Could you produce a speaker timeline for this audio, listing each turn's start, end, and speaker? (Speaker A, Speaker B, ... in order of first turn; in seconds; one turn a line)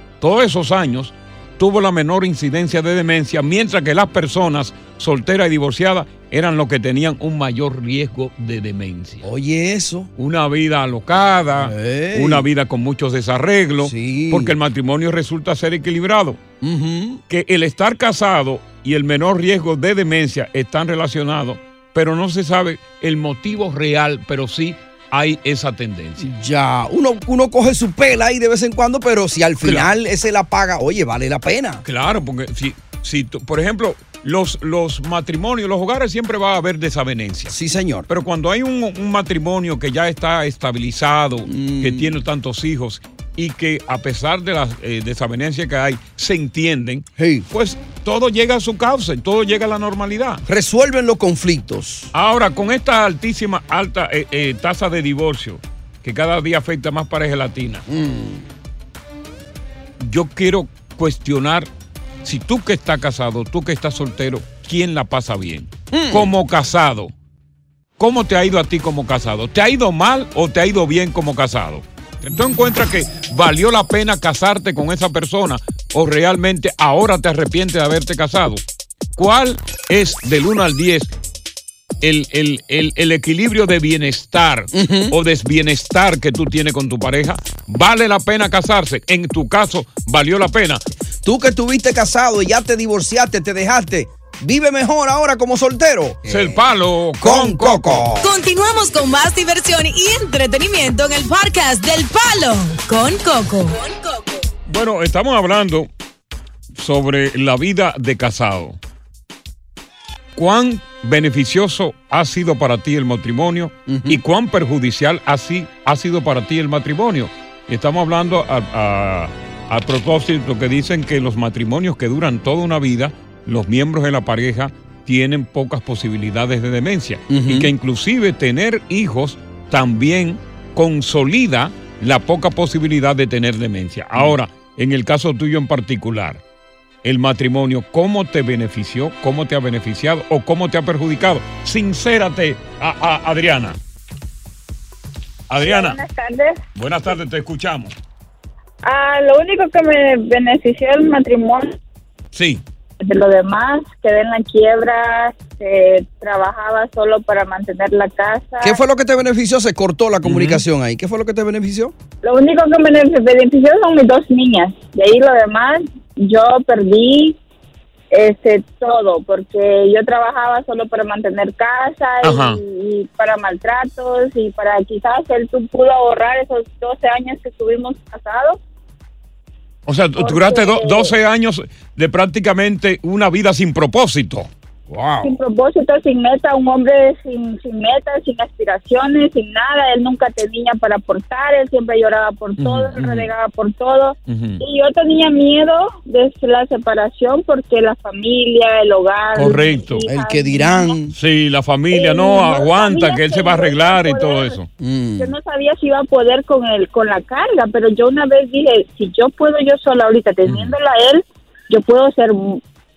Speaker A: 0.2-9.2
Speaker B: 9.2-10.1
Speaker A: 10.2-16.4
Speaker B: 11.6-12.5
Speaker B: 13.8-14.6
Speaker B: 16.6-17.2
Speaker A: 17.3-26.3
Speaker B: 26.2-31.8
Speaker A: 29.6-29.9
Speaker A: 31.8-37.5
Speaker B: 37.5-38.1
Speaker A: 38.1-50.4
Speaker B: 41.5-42.2
Speaker B: 47.2-47.5
Speaker B: 50.5-52.1
Speaker A: 52.1-57.9
Speaker B: 57.9-58.5
Speaker A: 60.0-61.7
Speaker A: 62.2-67.1
Speaker B: 65.9-66.3
Speaker A: 68.0-78.6
Speaker A: 79.2-81.1
Speaker A: 82.0-90.8
Speaker B: 84.7-85.2
Speaker B: 91.2-96.6
Speaker A: 96.3-98.1
Speaker B: 97.2-98.3
Speaker C: 98.2-104.4
Speaker A: 104.7-105.9
Speaker A: 106.8-108.8
Speaker A: 110.3-136.4
Speaker B: 113.9-114.2
Speaker B: 127.3-127.7
Speaker A: 137.0-143.8
Speaker A: 145.5-146.0
Speaker D: 145.6-146.6
Speaker A: 146.7-147.9
Speaker D: 148.8-151.8
Speaker A: 152.3-152.6
Speaker D: 153.0-158.8
Speaker B: 158.6-161.9
Speaker A: 160.2-160.6
Speaker D: 162.2-167.4
Speaker D: 168.1-178.6
Speaker A: 172.2-172.6
Speaker A: 179.9-184.5
Speaker D: 180.2-181.1
Speaker B: 184.9-185.4
Speaker D: 185.2-201.0
Speaker A: 192.6-193.3
Speaker A: 194.3-194.6
Speaker A: 199.3-200.0
Speaker B: 200.1-201.1
Speaker A: 201.1-204.7
Speaker D: 201.9-204.6
Speaker B: 204.8-205.3
Speaker D: 205.2-212.6
Speaker A: 210.4-210.8